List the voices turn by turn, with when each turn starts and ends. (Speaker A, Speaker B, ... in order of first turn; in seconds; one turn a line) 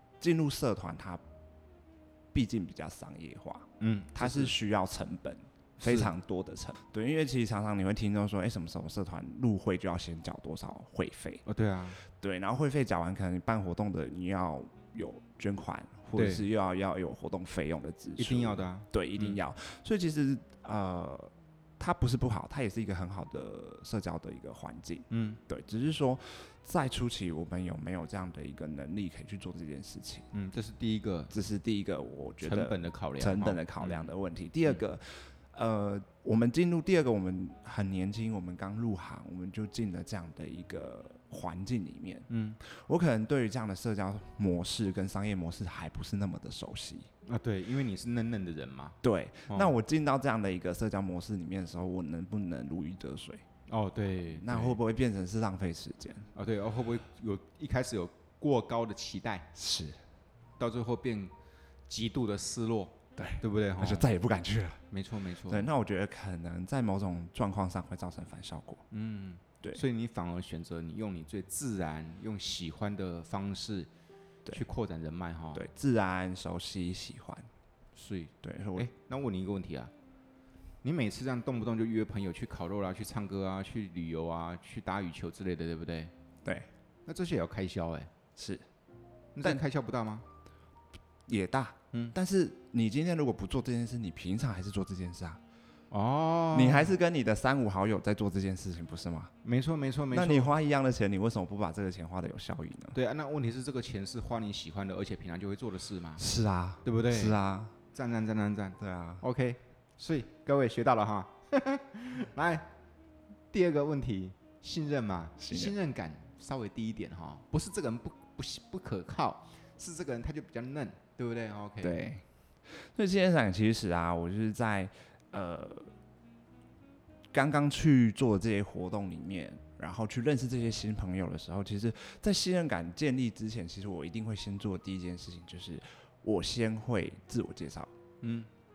Speaker A: 0.2-1.2
Speaker A: 2.3-11.4
Speaker B: 3.8-4.5
Speaker B: 5.8-6.1
Speaker B: 11.4-12.0
Speaker A: 12.0-30.3
Speaker B: 16.1-16.4
Speaker B: 18.2-19.4
Speaker B: 25.1-25.4
Speaker B: 30.3-31.3
Speaker A: 31.3-47.1
Speaker B: 32.4-34.1
Speaker B: 42.3-42.6
Speaker B: 47.2-49.0
Speaker A: 49.0-53.4
Speaker B: 53.7-54.8
Speaker A: 54.3-56.3
Speaker B: 56.3-59.5
Speaker A: 59.5-60.0
Speaker B: 60.6-61.3
Speaker B: 61.9-64.1
Speaker A: 63.2-64.8
Speaker B: 64.9-65.7
Speaker A: 65.5-68.8
Speaker B: 68.9-73.9
Speaker B: 74.5-75.6
Speaker A: 75.5-77.5
Speaker B: 77.9-79.9
Speaker A: 78.4-78.9
Speaker B: 80.8-86.1
Speaker A: 86.4-86.7
Speaker B: 87.0-88.1
Speaker A: 88.4-88.6
Speaker B: 89.3-90.2
Speaker A: 91.3-95.4
Speaker B: 95.9-96.9
Speaker A: 96.5-99.3
Speaker B: 99.4-100.5
Speaker A: 100.1-103.0
Speaker B: 102.9-106.2
Speaker A: 106.2-107.7
Speaker B: 106.8-107.4
Speaker B: 107.9-112.7
Speaker A: 108.8-109.2
Speaker B: 113.5-122.0
Speaker A: 115.4-115.7
Speaker A: 121.8-125.9
Speaker A: 127.3-137.9
Speaker B: 138.2-138.5